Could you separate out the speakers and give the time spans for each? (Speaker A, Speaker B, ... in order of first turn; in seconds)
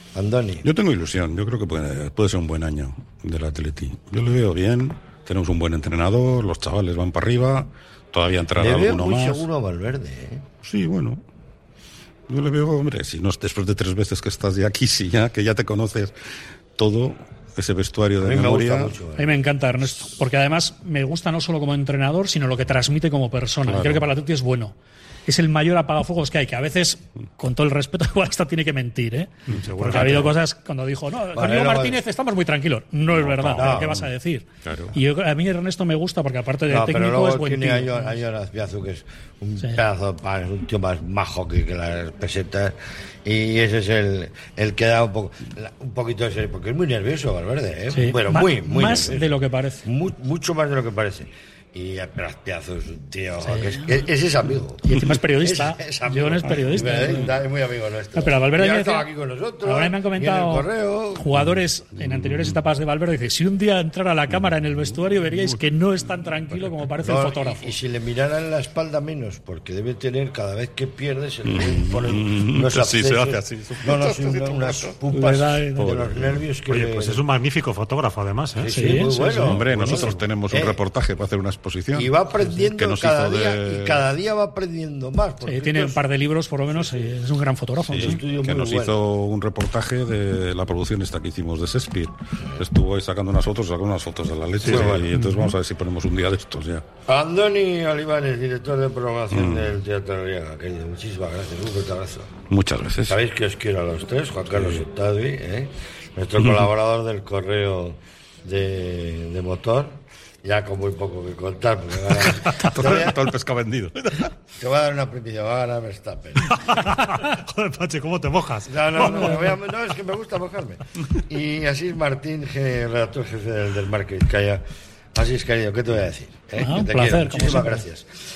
Speaker A: 0.1-0.6, 8.6-10.5, 18.2-19.4, 31.3-32.0, 33.5-34.0, 36.7-49.3, 49.9-61.3, 67.0-77.2, 78.6-80.8, 81.9-86.0, 86.7-87.1, 88.0-89.0, 94.7-95.1, 97.1-102.3, 103.1-113.2, 114.6-116.6, 118.7-124.6, 125.2-128.1
Speaker B: 0.6-9.5, 10.6-11.2, 12.3-16.1, 16.8-19.0, 23.6-24.1, 33.1-34.1, 34.6-35.0, 62.0-62.6, 65.2-65.6, 71.5-75.0, 75.8-76.4, 79.4-84.1, 87.9-96.8, 99.3-99.8, 102.5-103.2, 112.1-114.3
Speaker C: 19.2-24.8, 25.3-38.2, 47.9-49.8, 53.5-54.0, 54.8-57.3, 58.2-59.1, 59.6-67.7, 75.1-75.9, 78.7-79.6, 85.5-88.2, 95.1-95.5, 119.0-119.5, 126.6-127.8
Speaker D: 29.5-30.4, 76.7-79.0, 79.7-80.2, 94.6-94.9, 116.5-119.5